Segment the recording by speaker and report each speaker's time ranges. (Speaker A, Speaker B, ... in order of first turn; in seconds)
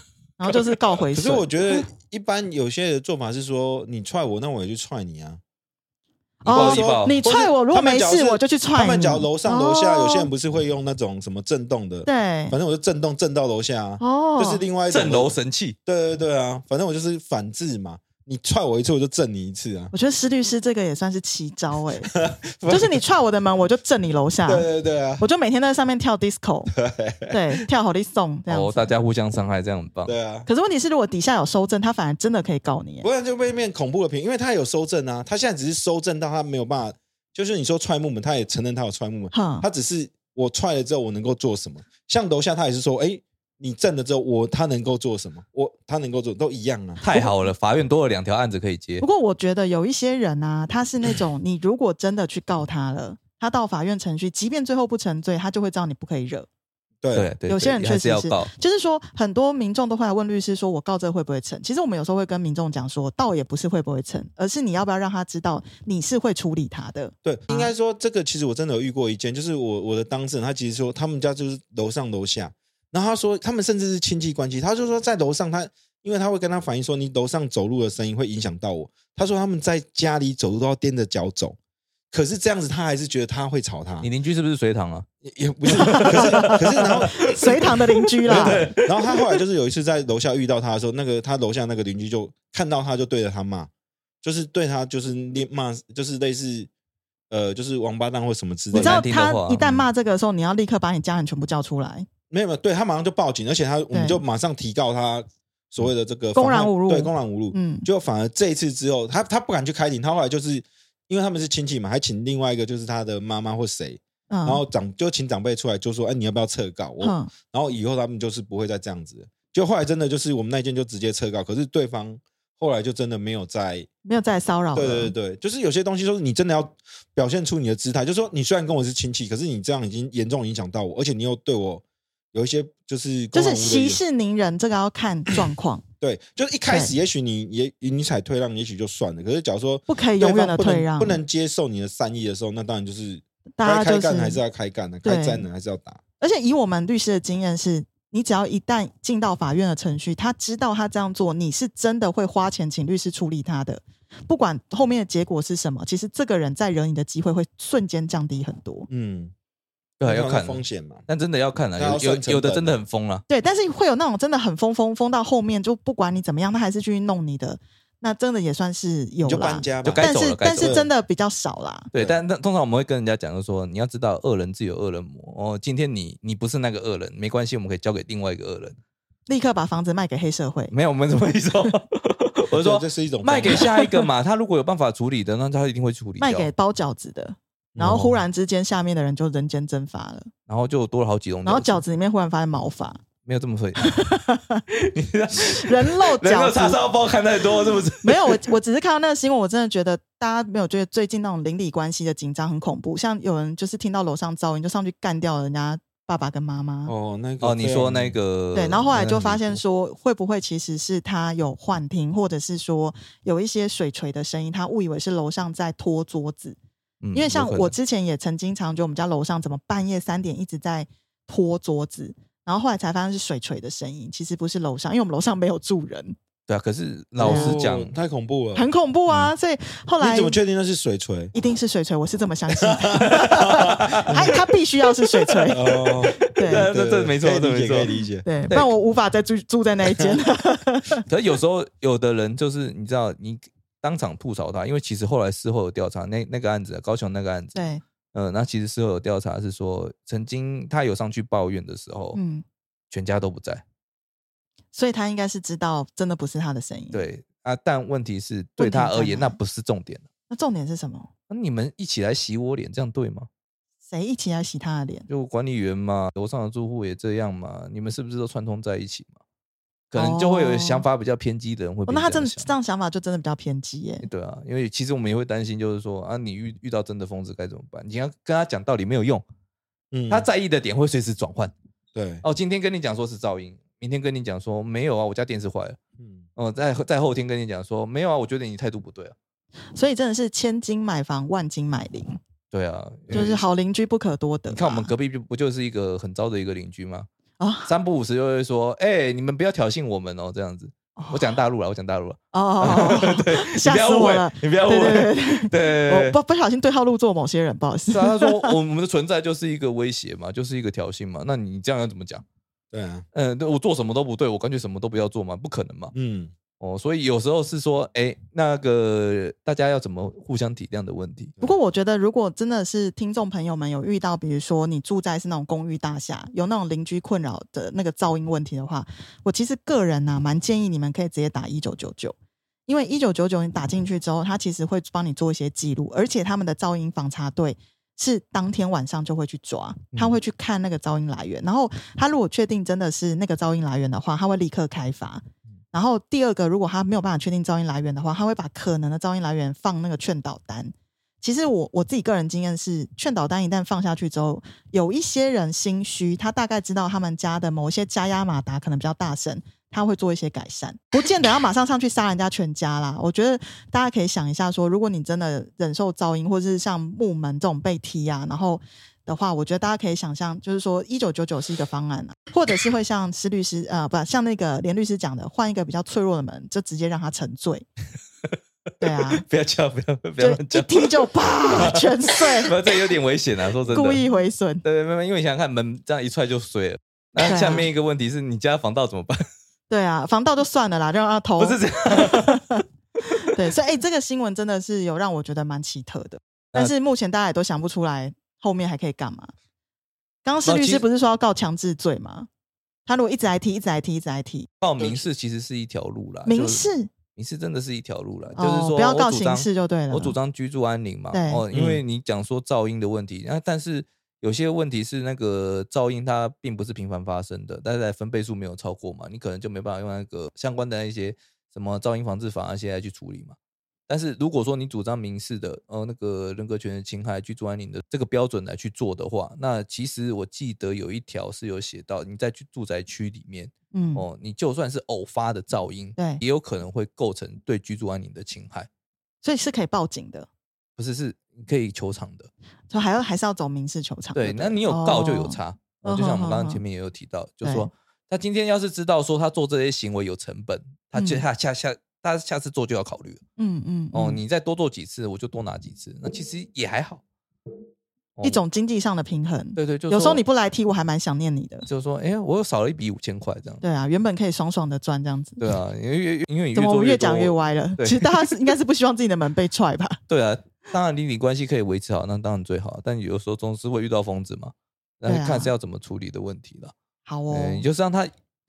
Speaker A: 0.4-1.9, 6.4-10.3, 12.1-12.6, 14.0-14.6, 19.9-22.1, 22.7-26.7, 27.3-28.9, 30.5-33.1, 39.3-39.7, 47.1-47.4, 49.0-56.5, 57.5-67.7, 85.7-88.7, 98.7-102.1, 103.9-104.2, 106.3-107.9, 114.3-114.6, 117.0-117.3, 124.0-125.1, 133.3-135.8, 136.7-136.9, 139.9-141.2, 143.6-144.4, 145.0-145.5, 146.2-158.9, 163.3-171.9, 179.3-180.7, 186.2-190.3, 191.4-193.0, 193.8-194.6, 195.4-196.8, 198.0-206.9, 208.5-216.6, 217.1-226.2, 227.2-227.6, 228.6-230.4, 231.3-236.7, 238.2-241.0, 247.6-247.8, 252.1-252.4, 254.7-257.1, 258.6-259.4, 260.3-261.1, 263.9-265.1, 270.0-270.9, 271.9-274.1, 289.7-292.2, 293.1-294.9, 297.4-297.7, 301.0-301.4, 302.3-308.6, 321.4-332.2, 332.7-377.7, 378.8-379.2, 380.2-382.5, 383.7-384.6, 387.2-387.7, 389.7-392.6, 393.3-399.3, 400.2-402.3, 402.9-404.5, 406.3-406.9, 408.4-410.2, 411.1-411.4, 433.7-434.1, 439.2-440.3, 442.7-446.6, 447.4-447.7, 450.9-451.2, 453.4-454.2, 458.2-461.7, 463.6-465.5, 466.6-470.0, 475.1-475.5, 477.1-477.6
Speaker B: 1.1-5.4, 6.5-15.3, 15.9-19.9, 22.1-23.0, 24.5-25.2, 26.7-27.6, 30.1-30.5, 33.0-47.0, 57.0-57.3, 67.2-81.6, 82.1-84.1, 85.2-87.3, 88.3-93.7, 94.2-96.7, 97.3-99.0, 102.3-123.9, 124.7-134.0, 136.0-146.0, 158.9-159.3, 160.0-161.0, 161.8-162.8, 169.2-170.9, 182.5-183.7, 187.8-188.2, 206.9-208.2, 227.2-229.3, 230.0-231.3, 232.5-234.3, 235.5-238.3, 239.9-240.2, 279.9-280.3, 281.9-282.2, 286.0-286.3, 312.7-313.1, 315.9-316.3, 404.8-405.0, 411.5-411.8
Speaker C: 6.4-7.2, 14.9-15.8, 28.5-30.1, 47.0-49.0, 57.1-58.5, 84.0-85.1, 85.8-87.5, 88.2-89.4, 98.7-99.8, 160.0-163.2, 169.8-170.8, 171.9-178.8, 180.7-186.5, 190.5-191.8, 193.2-194.0, 194.7-198.4, 207.4-209.6, 217.0-217.8, 226.5-227.9, 233.1-234.1, 235.4-237.9, 241.1-247.6, 248.1-252.2, 252.9-253.6, 256.9-260.1, 261.3-263.3, 265.1-269.2, 269.9-272.5, 274.0-279.2, 280.1-281.5, 282.2-285.8, 286.4-289.1, 292.5-293.4, 294.5-297.1, 297.6-306.2, 307.9-312.2, 313.1-315.9, 316.6-321.3, 378.9-384.1, 384.6-389.2, 391.4-392.6, 400.4-400.9, 404.6-423.4, 423.9-438.7, 440.8-442.3, 444.1-453.2, 453.9-457.0, 459.6-460.2, 461.7-463.6, 465.4-468.4, 470.1-476.7, 477.3-478.1